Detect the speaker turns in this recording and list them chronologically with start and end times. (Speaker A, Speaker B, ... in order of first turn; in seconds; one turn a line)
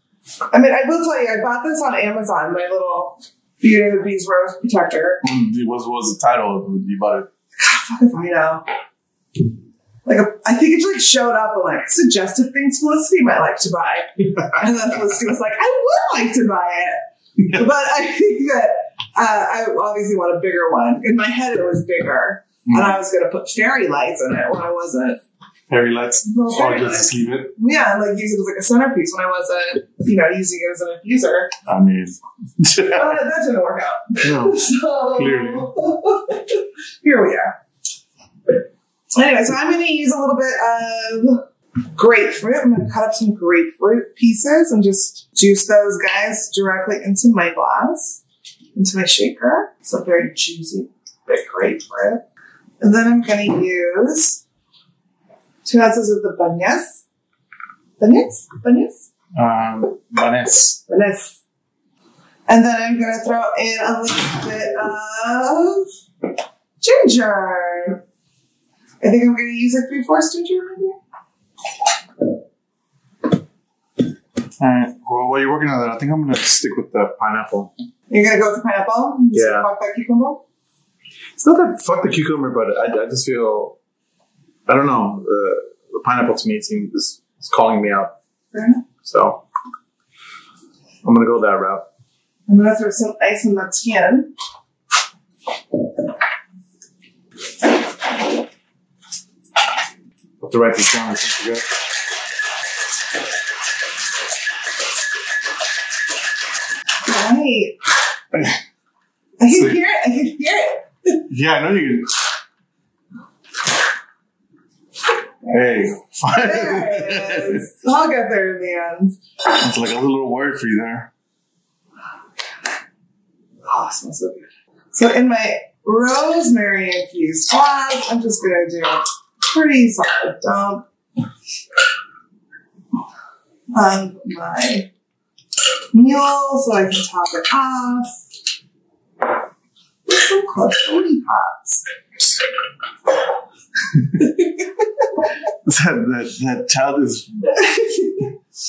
Speaker A: 0.5-5.2
Speaker B: 5.2-7.3
Speaker A: 7.6-8.6
Speaker A: 10.1-25.2
Speaker B: 22.6-23.0
Speaker B: 25.7-27.5
Speaker A: 26.2-31.5
Speaker B: 31.6-33.2
Speaker A: 32.9-37.5
Speaker B: 34.2-34.6
Speaker B: 35.1-35.7
Speaker A: 39.1-41.4
Speaker A: 41.9-48.2
Speaker A: 48.8-52.2
Speaker A: 52.8-54.4
Speaker A: 55.6-57.0
Speaker A: 58.0-59.0
Speaker B: 59.3-60.8
Speaker A: 60.9-61.4
Speaker A: 62.5-65.9
Speaker A: 66.8-68.0
Speaker A: 69.0-71.0
Speaker B: 74.6-77.7
Speaker A: 78.1-80.4
Speaker B: 79.3-79.7
Speaker B: 81.4-83.8
Speaker B: 84.7-88.1
Speaker A: 88.5-88.8
Speaker B: 89.0-89.4
Speaker B: 91.0-91.8
Speaker A: 92.5-94.3
Speaker B: 100.4-101.7
Speaker A: 107.0-107.8
Speaker B: 108.3-108.6
Speaker A: 109.4-111.2
Speaker B: 109.5-109.8
Speaker B: 111.3-112.1
Speaker A: 115.4-119.2
Speaker B: 115.5-117.6
Speaker B: 119.4-121.1
Speaker A: 123.6-130.8
Speaker A: 133.7-134.9
Speaker A: 135.9-138.2
Speaker A: 140.1-141.8
Speaker A: 144.2-144.6
Speaker B: 145.6-147.5
Speaker A: 147.5-148.3